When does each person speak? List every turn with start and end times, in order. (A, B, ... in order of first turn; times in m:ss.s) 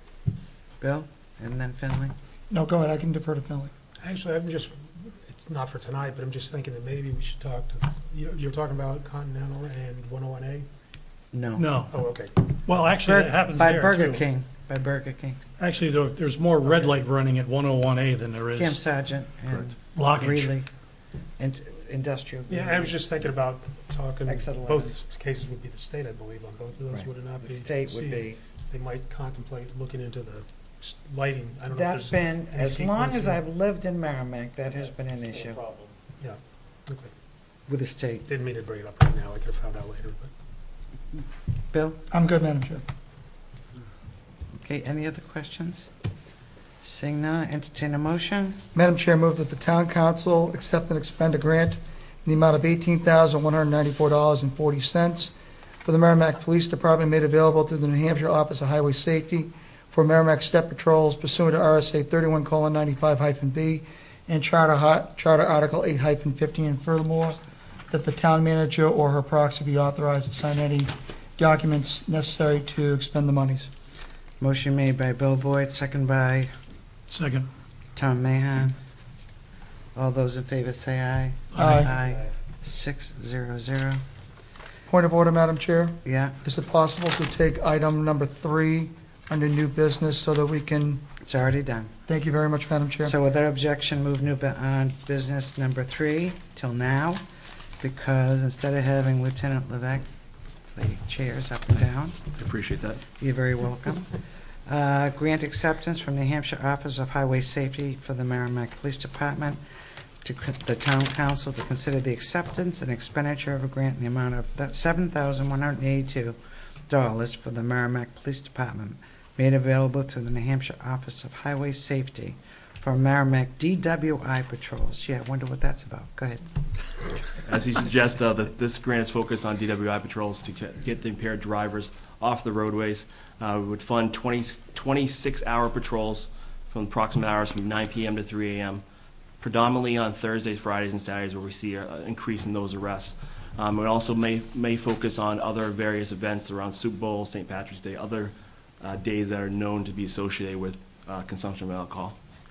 0:00.8-0:02.1 A
0:02.5-0:03.7 B
0:04.0-0:10.7 C
0:11.3-0:11.8 A
0:11.6-0:12.0 D
0:11.9-0:12.4 C
0:12.6-0:14.3 D
0:13.0-0:15.4 A
0:15.6-0:18.8 D
0:18.5-0:20.7 A
0:19.9-0:20.5 D
0:21.4-0:23.0 A
0:22.5-0:33.4 C
0:24.3-0:24.9 A
0:26.9-0:28.4 A
0:31.7-0:35.6 A
0:35.7-0:37.1 C
0:37.7-0:38.2 A
0:38.2-0:40.3 C
0:41.7-0:42.0 A
0:42.1-0:42.8 B
0:44.6-0:45.9 A
0:46.8-0:48.6 A
0:48.7-0:55.3 B
0:55.8-1:07.4 B
1:07.9-1:13.7 B
1:14.4-1:16.5 A
1:17.1-1:17.5 D
1:18.0-1:18.7 A
1:19.9-1:24.0 A
1:21.5-1:21.8 D
1:21.6-1:21.9 B
1:24.9-1:31.0 B
1:26.0-1:26.4 A
1:31.2-1:31.9 A
1:32.1-1:33.1 B
1:33.0-1:37.2 A
1:37.8-1:40.1 A
1:40.7-1:42.2 A
1:42.4-1:43.0 E
1:43.2-1:49.6 A
1:50.2-1:56.4 A
1:56.9-2:06.4 A
2:07.4-2:18.8 E
2:19.4-2:32.2 E